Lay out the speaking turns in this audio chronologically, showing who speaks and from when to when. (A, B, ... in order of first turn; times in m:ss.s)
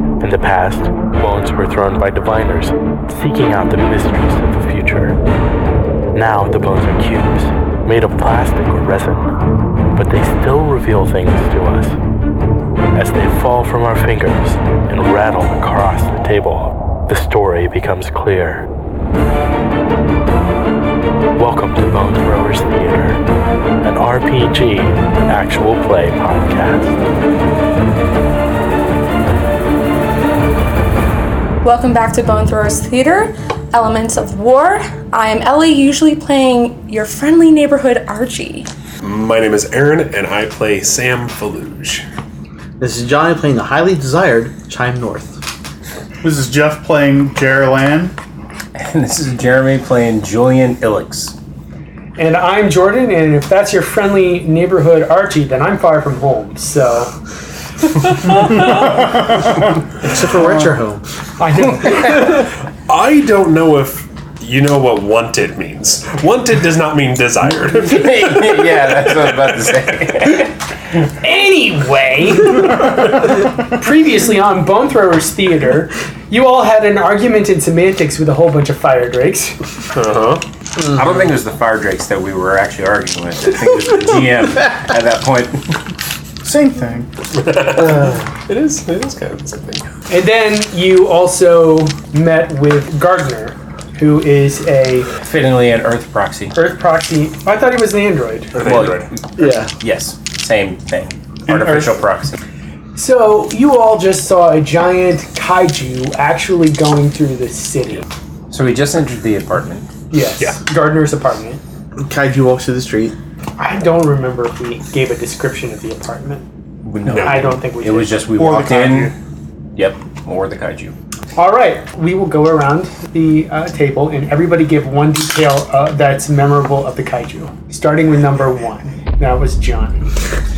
0:00.2-0:05.2 A
0:06.1-0:09.3 A
0:09.9-0:12.0 A
0:12.9-0:18.7 A
0:21.3-0:23.2 A
0:23.8-0:27.0 A
0:31.6-0:38.7 B
0:39.0-0:42.0 C
0:42.8-0:45.4 D
0:46.2-0:48.2 E
0:48.7-0:51.3 F
0:52.2-0:57.1 G
0:58.2-0:58.9 C
1:00.0-1:01.0 D
1:01.4-1:02.2 G
1:01.6-1:10.0 C
1:07.6-1:10.5 F
1:11.2-1:19.6 G
1:19.9-1:20.4 C
1:20.8-1:25.8 F
1:26.4-1:27.1 E
1:27.3-1:29.9 C
1:30.1-1:35.1 G
1:35.2-1:36.6 F
1:36.5-1:38.6 G
1:38.5-1:39.1 C
1:38.6-1:42.4 F
1:39.4-1:39.7 D
1:41.5-1:41.9 E
1:42.9-1:48.0 G
1:48.5-1:49.9 F
1:50.1-1:51.6 G
1:52.0-1:53.2 D
1:53.6-1:56.4 G
1:56.8-1:59.1 F
1:57.0-1:57.5 C
1:57.2-1:58.2 G
1:58.3-1:59.2 E
1:59.8-2:00.9 F
2:01.4-2:10.1 G